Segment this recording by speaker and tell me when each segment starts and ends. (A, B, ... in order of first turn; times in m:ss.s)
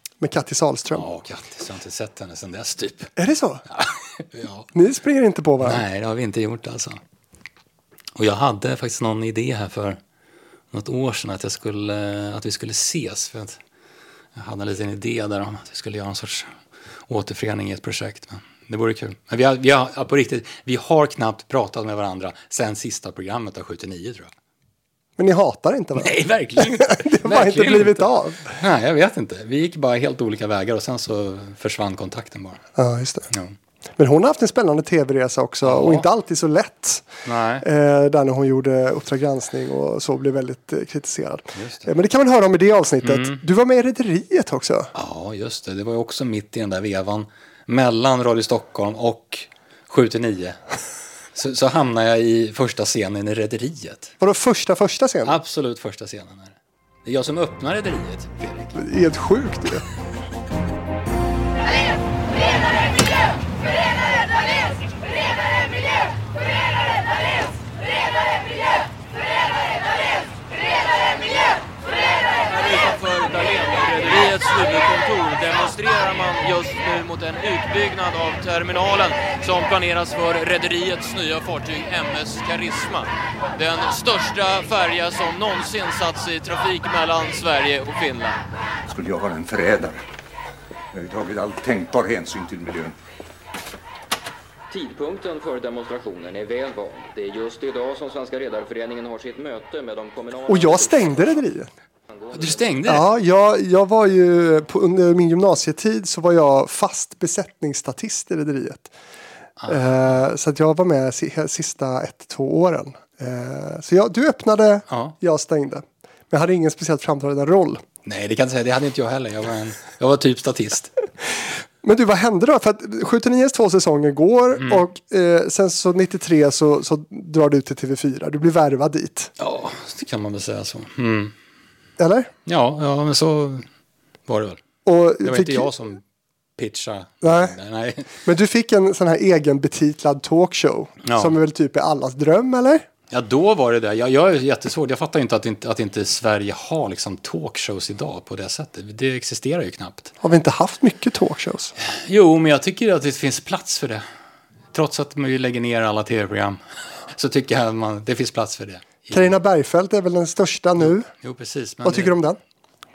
0:00.2-0:01.1 A
0:00.9-0:03.1 B
0:03.2-0:03.6 A
0:03.7-0:04.7 B
0:04.7-0:05.8 A
0:05.6-0:07.0 B
0:08.2-0:10.0 B
0:10.7-0:13.6 B
0:14.3-0:16.5 B
0:17.1-0:24.3 B
0:25.2-0:28.6 A
0:26.0-0:32.6 B
0:32.8-0:33.3 A
0:34.0-0:37.1 A
0:35.6-0:36.1 B
0:37.2-0:37.6 B
0:37.6-0:44.9 A
0:41.5-0:41.9 B
0:43.0-0:43.4 B
0:44.9-0:50.6 B
0:51.3-0:54.1 B
0:54.2-0:55.4 A
0:55.2-0:58.8 B
0:58.7-0:59.8 A
1:12.4-1:28.4 C
1:28.9-1:30.0 D
1:30.9-1:32.9 D
1:34.7-1:41.3 E
1:40.5-1:41.7 A
1:42.2-1:42.6 E
1:42.3-1:43.0 B
1:42.9-1:48.9 A
1:49.6-1:49.9 B
1:49.7-1:57.8 A
1:54.9-1:55.1 B
1:58.0-2:00.9 B
2:01.8-2:09.3 A
2:04.5-2:04.8 B
2:09.4-2:11.3 B
2:12.0-2:12.3 A
2:12.4-2:13.6 B
2:14.3-2:14.6 B
2:14.8-2:15.7 A
2:15.2-2:16.0 B
2:16.6-2:18.2 B
2:17.2-2:17.6 A
2:18.2-2:22.8 A
2:21.0-2:21.4 B
2:23.1-2:30.1 B
2:30.2-2:31.7 A
2:31.8-2:34.0 B
2:34.7-2:39.3 B
2:39.1-2:41.1 A
2:40.8-2:42.2 B
2:41.8-2:42.4 A